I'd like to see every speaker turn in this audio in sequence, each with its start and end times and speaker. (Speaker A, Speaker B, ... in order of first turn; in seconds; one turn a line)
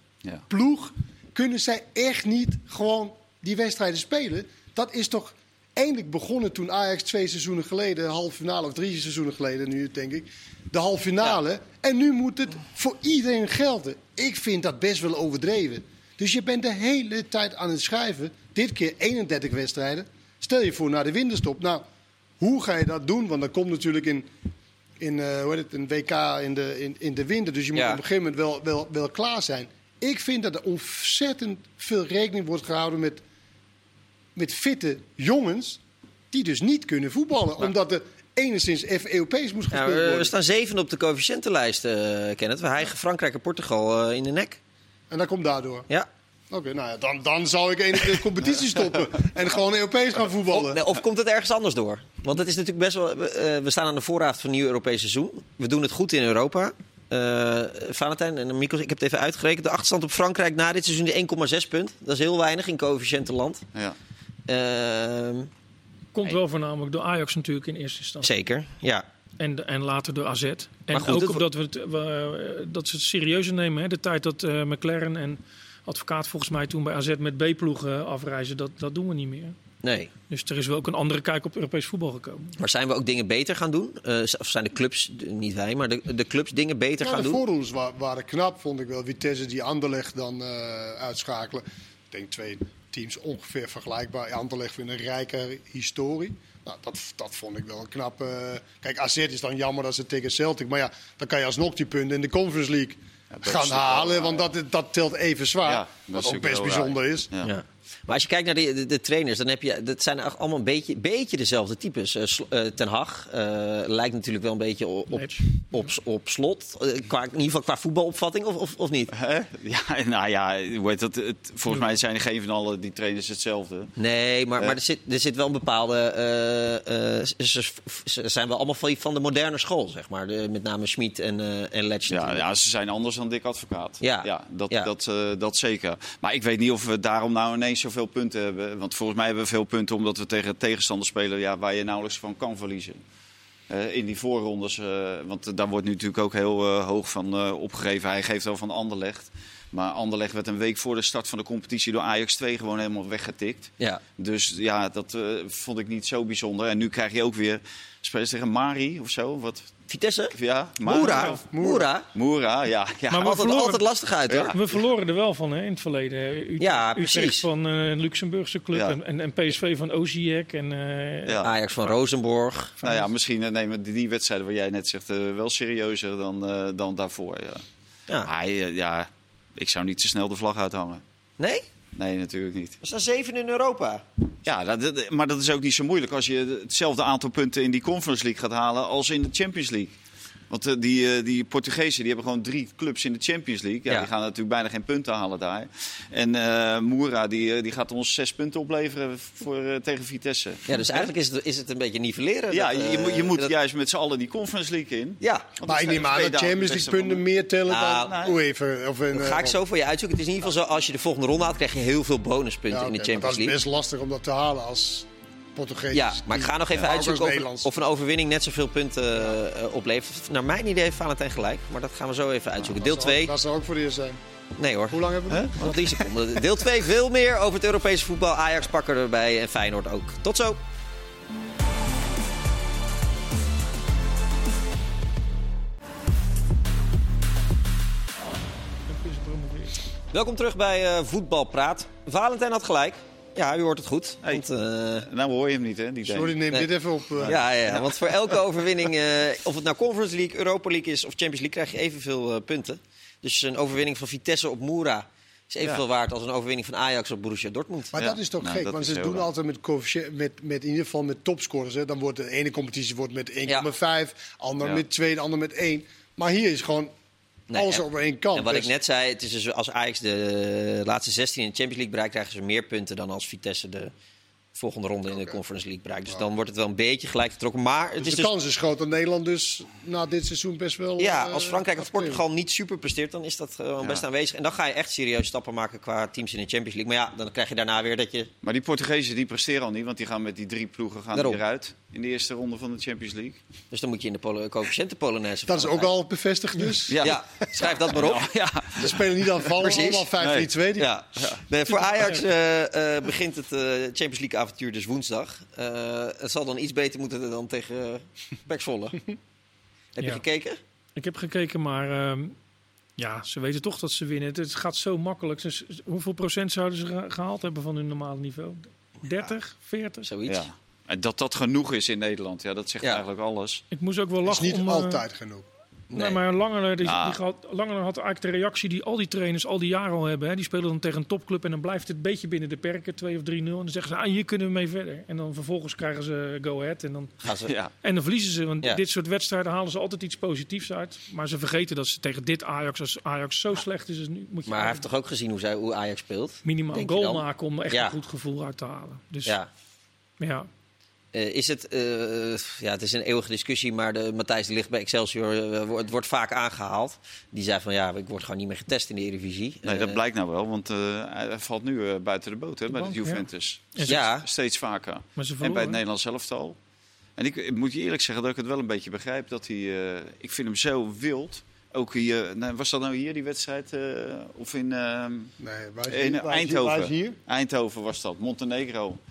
Speaker A: 0.5-21.8
Speaker A: 22.4-24.3
Speaker A: 25.0-33.2
Speaker B: 27.7-28.0
Speaker A: 34.3-35.8
Speaker A: 36.3-40.3
Speaker B: 39.7-44.6
Speaker A: 45.1-45.9
Speaker A: 46.5-50.8
Speaker B: 50.5-63.6
Speaker B: 64.5-65.5
Speaker C: 66.1-68.3
Speaker B: 68.2-69.0
Speaker C: 69.4-79.5
Speaker B: 70.9-71.4
Speaker B: 79.8-80.1
Speaker C: 80.3-82.5
Speaker B: 82.6-87.4
Speaker A: 87.0-107.3
Speaker D: 103.3-104.5
Speaker D: 105.6-107.5
Speaker B: 107.4-119.1
Speaker C: 115.1-115.4
Speaker D: 119.1-123.9
Speaker B: 124.0-132.4
Speaker D: 132.1-143.0
Speaker B: 134.0-134.9
Speaker D: 143.7-159.7
Speaker B: 159.9-162.1
Speaker D: 160.3-161.3
Speaker C: 161.0-161.4
Speaker A: 161.4-161.9
Speaker D: 162.1-163.5
Speaker C: 163.1-163.8
Speaker B: 163.2-164.5
Speaker D: 164.3-164.6
Speaker C: 164.5-171.4
Speaker B: 166.6-167.4
Speaker D: 171.2-171.9
Speaker B: 171.4-172.7
Speaker C: 172.8-173.1
Speaker D: 172.8-177.6
Speaker D: 178.2-181.0
Speaker B: 181.4-181.7
Speaker D: 181.9-182.8
Speaker B: 182.8-184.0
Speaker D: 184.4-189.9
Speaker D: 190.5-201.1
Speaker B: 200.7-203.5
Speaker D: 202.5-207.2
Speaker B: 205.2-205.5
Speaker A: 205.6-209.6
Speaker B: 207.7-208.1
Speaker D: 207.8-208.4
Speaker B: 209.1-213.6
Speaker A: 212.7-217.7
Speaker B: 215.9-223.3
Speaker A: 222.7-224.2
Speaker B: 224.6-225.0
Speaker A: 224.9-225.5
Speaker D: 225.3-226.4
Speaker B: 225.5-230.6
Speaker C: 238.9-239.8
Speaker B: 240.1-245.1
Speaker D: 245.0-246.3
Speaker A: 246.0-247.4
Speaker D: 247.2-248.1
Speaker B: 247.2-257.9
Speaker A: 257.9-266.9
Speaker D: 258.0-259.2
Speaker B: 267.5-273.9
Speaker A: 267.5-268.7
Speaker B: 274.5-278.3
Speaker A: 278.0-282.2
Speaker B: 281.0-288.3
Speaker D: 288.4-293.4
Speaker B: 291.1-291.4
Speaker B: 293.7-295.9
Speaker A: 295.5-297.7
Speaker D: 296.9-299.0
Speaker B: 297.0-298.3
Speaker A: 298.8-300.9
Speaker B: 299.6-300.1
Speaker D: 300.2-300.5
Speaker B: 300.8-309.0
Speaker B: 309.9-310.6
Speaker C: 310.9-312.3
Speaker C: 313.0-320.1
Speaker B: 320.0-320.5
Speaker D: 320.2-323.6
Speaker C: 323.7-325.0
Speaker A: 324.2-325.5
Speaker B: 325.9-326.2
Speaker C: 325.9-337.1
Speaker D: 326.8-327.2
Speaker B: 337.2-337.5
Speaker D: 337.5-337.7
Speaker C: 337.8-344.9
Speaker B: 344.4-347.9
Speaker C: 346.4-349.4
Speaker C: 350.2-350.5
Speaker B: 351.1-360.0
Speaker D: 359.6-366.6
Speaker C: 362.7-364.0
Speaker B: 363.9-364.2
Speaker C: 365.2-365.8
Speaker D: 367.2-375.3
Speaker A: 375.4-377.2
Speaker D: 375.9-379.0